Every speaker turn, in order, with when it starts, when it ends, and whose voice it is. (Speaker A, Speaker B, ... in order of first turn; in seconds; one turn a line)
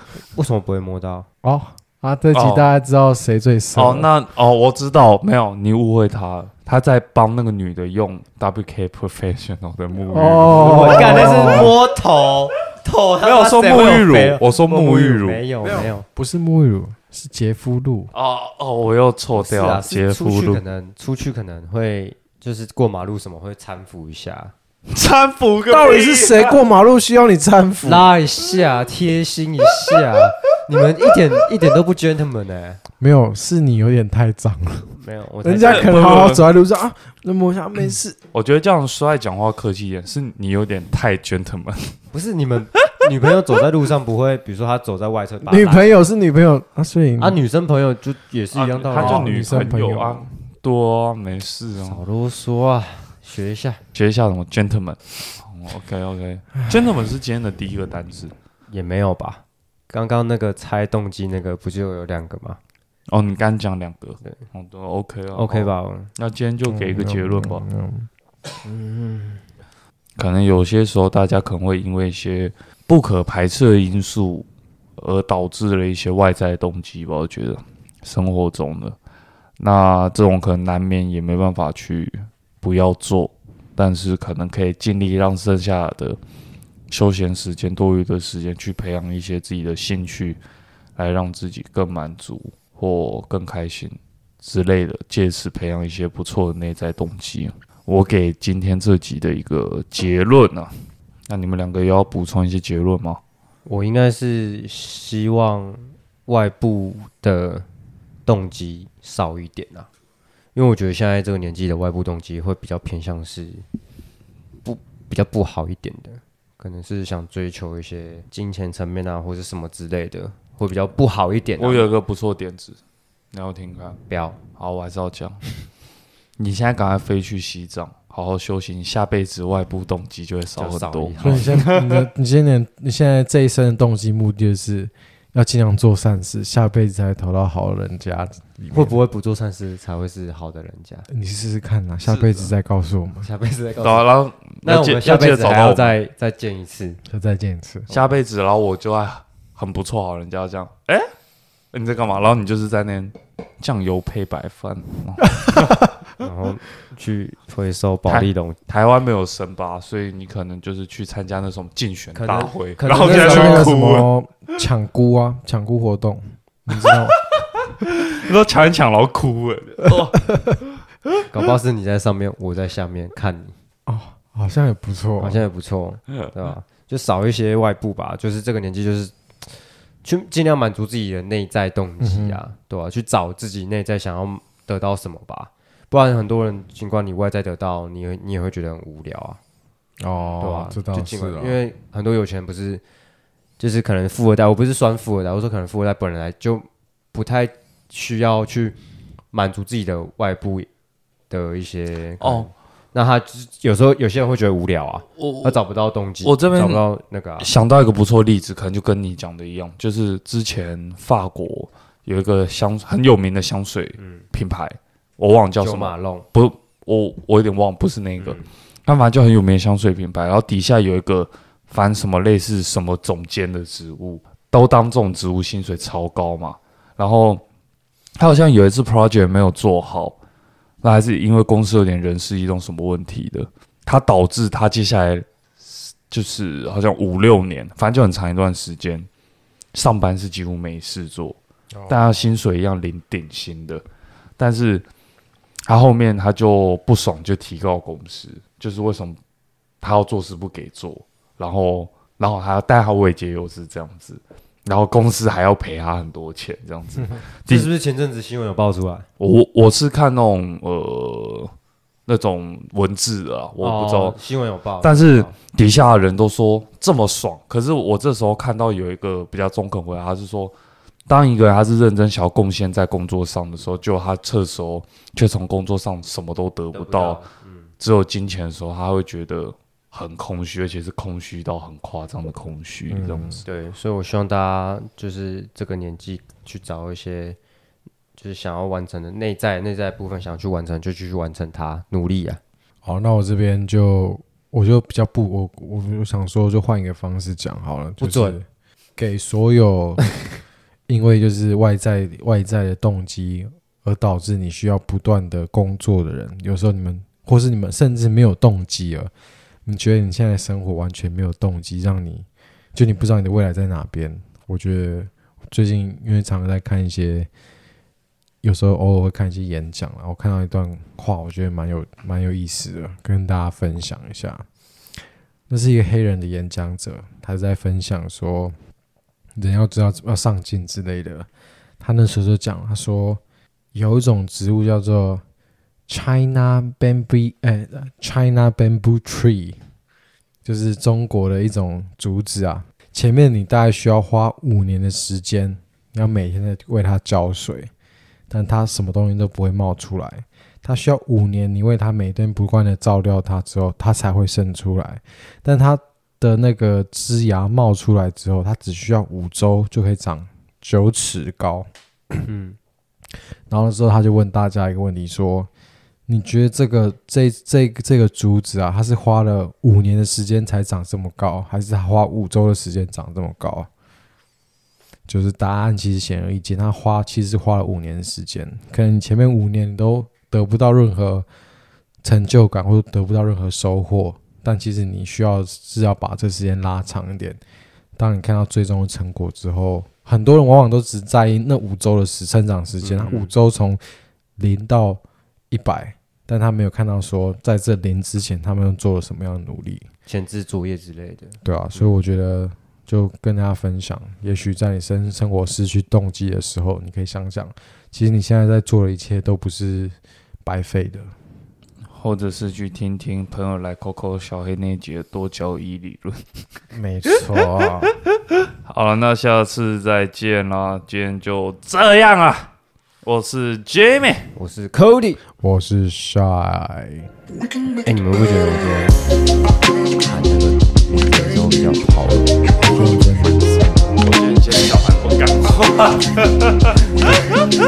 Speaker A: 0.2-1.3
Speaker B: 1.4-4.1
Speaker C: 2.3-2.7
Speaker C: 3.8-11.7
Speaker B: 10.1-11.8
Speaker A: 10.5-16.1
Speaker C: 13.2-15.4
Speaker B: 15.6-18.1
Speaker C: 18.1-20.6
Speaker A: 19.4-24.5
Speaker C: 24.9-26.6
Speaker B: 25.7-28.1
Speaker A: 27.8-32.8
Speaker B: 33.0-38.2
Speaker A: 35.0-36.2
Speaker C: 35.6-36.5
Speaker C: 38.3-42.0
Speaker A: 42.1-46.0
Speaker B: 45.4-47.4
Speaker A: 47.2-49.8
Speaker C: 48.5-52.0
Speaker B: 48.9-50.4
Speaker A: 51.8-53.8
Speaker C: 53.9-58.3
Speaker A: 58.7-62.6
Speaker C: 63.1-67.7
Speaker A: 65.3-66.1
Speaker B: 66.7-68.1
Speaker B: 68.6-69.4
Speaker C: 70.2-74.5
Speaker C: 75.0-79.0
Speaker C: 79.6-86.2
Speaker C: 86.9-90.4
Speaker C: 91.0-100.7
Speaker C: 101.3-103.2
Speaker A: 103.7-107.7
Speaker A: 108.3-109.9
Speaker A: 110.5-113.7
Speaker A: 114.7-121.9
Speaker C: 121.6-122.8
Speaker C: 123.3-124.0
Speaker A: 124.1-124.4
Speaker C: 124.6-125.5
Speaker C: 126.4-131.8
Speaker A: 130.6-131.7
Speaker B: 131.2-139.0
Speaker A: 138.7-141.1
Speaker B: 141.1-143.3
Speaker C: 142.1-142.5
Speaker A: 143.2-144.1
Speaker C: 143.8-146.0
Speaker A: 144.6-147.0
Speaker B: 147.1-147.9
Speaker C: 147.9-151.1
Speaker C: 151.7-155.9
Speaker A: 156.2-158.6
Speaker C: 158.1-164.1
Speaker A: 162.2-163.8
Speaker B: 162.9-167.2
Speaker C: 166.7-170.8
Speaker A: 171.3-173.5
Speaker B: 173.9-175.4
Speaker A: 175.2-179.5
Speaker A: 180.0-189.4
Speaker B: 182.0-182.4
Speaker B: 190.0-191.6
Speaker A: 190.4-192.8
Speaker A: 193.6-198.8
Speaker A: 199.3-200.7
Speaker A: 201.3-207.5
Speaker C: 202.2-202.5
Speaker C: 205.2-205.6
Speaker C: 206.2-206.9
Speaker C: 207.4-227.4
Speaker A: 214.0-214.2
Speaker A: 215.6-216.3
Speaker A: 218.2-218.5
Speaker C: 228.2-230.2
Speaker C: 230.8-239.1
Speaker C: 239.7-243.8
Speaker B: 241.8-242.0
Speaker C: 244.4-244.9
Speaker C: 245.7-249.2
Speaker C: 249.8-257.7
Speaker A: 257.5-259.1
Speaker C: 259.2-261.5
Speaker C: 262.1-264.2
Speaker A: 263.6-265.3
Speaker C: 264.8-270.5
Speaker C: 271.1-277.2
Speaker A: 276.7-277.7
Speaker C: 277.8-283.4
Speaker B: 282.9-283.4
Speaker A: 283.5-287.4
Speaker A: 288.2-292.4
Speaker B: 292.9-298.4
Speaker A: 298.0-298.4
Speaker B: 299.0-300.1
Speaker B: 300.9-309.1
Speaker B: 309.6-317.3
Speaker B: 318.4-324.4
Speaker B: 325.5-328.5
Speaker B: 329.4-331.3
Speaker B: 331.8-333.2
Speaker B: 333.7-335.2
Speaker B: 335.9-339.6
Speaker B: 340.4-347.7
Speaker B: 348.3-362.2
Speaker A: 362.2-362.6
Speaker B: 363.5-365.5
Speaker B: 366.1-373.7
Speaker B: 375.1-381.3
Speaker B: 382.0-387.4
Speaker B: 388.0-393.8
Speaker A: 392.8-393.3
Speaker B: 394.4-399.9
Speaker A: 400.1-401.9
Speaker B: 401.4-411.1
Speaker C: 411.9-416.2
Speaker B: 416.7-417.9
Speaker C: 418.6-422.5
Speaker C: 423.0-424.3
Speaker A: 424.4-425.2
Speaker B: 425.4-427.1
Speaker A: 427.9-429.0
Speaker A: 430.0-432.3
Speaker B: 432.6-434.0
Speaker C: 434.0-437.2